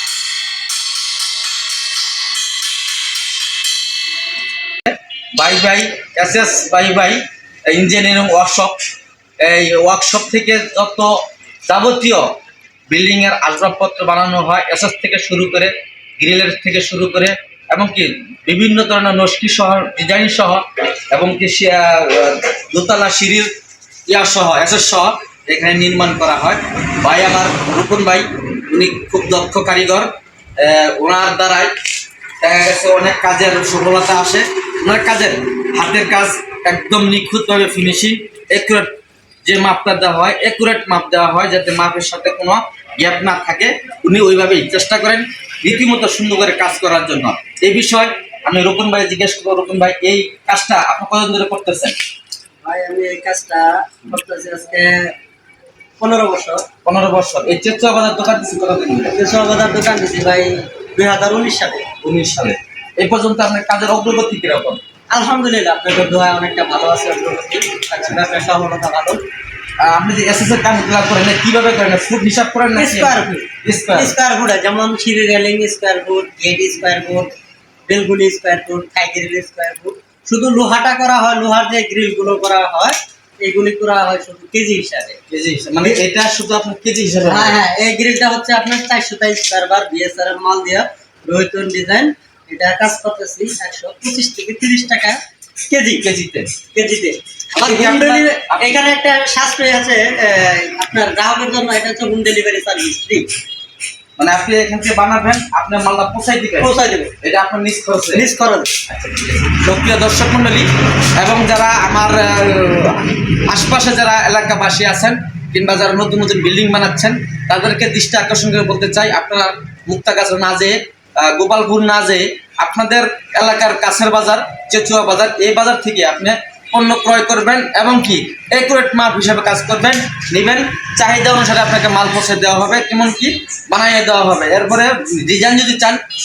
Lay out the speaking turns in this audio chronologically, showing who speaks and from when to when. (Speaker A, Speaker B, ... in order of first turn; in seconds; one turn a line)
Speaker A: 4.9-8.8
Speaker A: 9.4-12.3
Speaker A: 12.9-23.5
Speaker A: 24.1-31.7
Speaker A: 32.4-38.9
Speaker A: 39.4-52.0
Speaker B: 52.6-55.1
Speaker B: 56.0-56.6
Speaker A: 56.8-59.1
Speaker B: 59.1-61.9
Speaker A: 62.0-64.8
Speaker B: 65.1-69.2
Speaker A: 69.8-74.1
Speaker B: 72.7-77.3
Speaker B: 77.9-85.2
Speaker A: 85.3-87.6
Speaker B: 87.2-96.0
Speaker A: 96.0-96.5
Speaker B: 96.7-103.3
Speaker A: 97.5-98.8
Speaker A: 104.2-108.2
Speaker B: 106.6-107.1
Speaker B: 108.1-108.7
Speaker A: 108.9-136.0